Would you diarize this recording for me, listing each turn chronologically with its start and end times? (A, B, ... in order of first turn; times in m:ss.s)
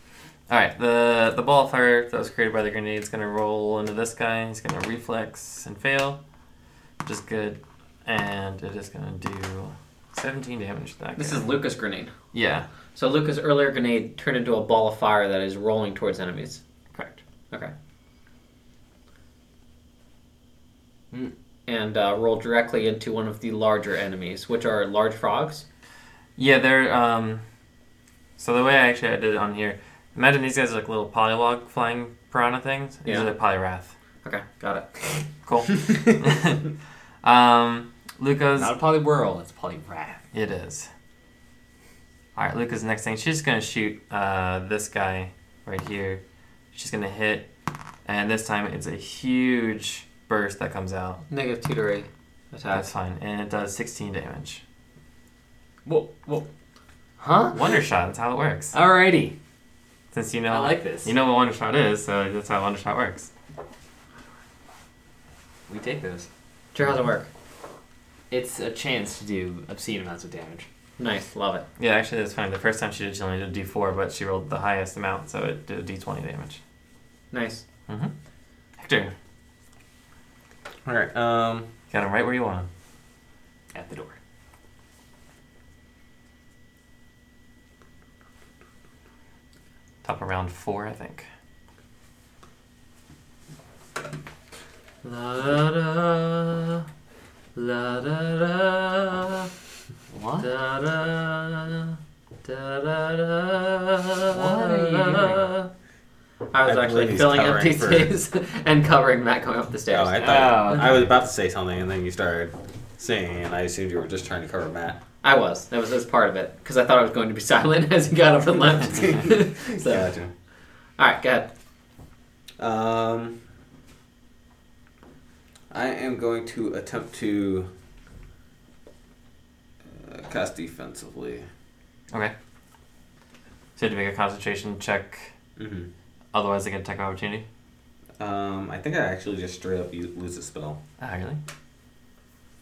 0:00.5-0:06.2 A
0:07.0-0:11.5 A
0:11.2-0:12.1 B
0:12.3-0:12.6 A
0:12.9-0:16.6 B
0:16.9-0:17.2 A
0:21.7-0:25.6 B
0:26.4-0:27.4 A
0:28.4-0:33.9 A
0:33.0-0:33.3 B
0:34.2-0:35.2 B
0:35.4-0:36.6 A
0:37.2-0:38.7 A
0:38.6-0:40.2 C
0:40.3-0:40.9 A
0:42.4-0:46.2 A
0:46.7-0:47.5 A
0:48.0-0:51.2 A
0:51.3-0:52.9 B
0:52.7-0:54.6 A
0:55.8-0:56.5 C
0:57.2-0:57.8 C
0:57.5-0:58.7 A
0:58.7-0:59.4 C
1:00.1-1:03.3 A
1:00.5-1:01.1 C
1:05.7-1:06.3 C
1:06.7-1:07.3 B
1:08.3-1:10.6 C
1:11.0-1:11.7 B
1:11.8-1:16.6 A
1:17.3-1:17.6 B
1:17.9-1:18.1 A
1:18.8-1:19.1 A
1:20.8-1:21.7 D
1:21.9-1:22.7 A
1:23.7-1:24.2 C
1:30.0-1:31.3 A
1:35.0-1:36.8 B
1:37.5-1:39.5 B
1:40.1-1:40.5 C
1:40.4-1:45.7 B
1:44.3-1:45.4 C
1:46.5-1:50.8 B
1:46.6-1:48.1 D
1:49.9-1:55.0 D
1:50.2-1:51.0 C
1:55.2-2:00.1 B
1:58.9-2:00.3 D
2:01.0-2:01.5 B
2:02.6-2:03.4 D
2:05.7-2:07.7 D
2:09.8-2:11.5 D
2:13.8-2:15.3 A
2:15.6-2:15.9 D
2:16.3-2:17.4 A
2:18.2-2:20.8 D
2:21.0-2:21.4 A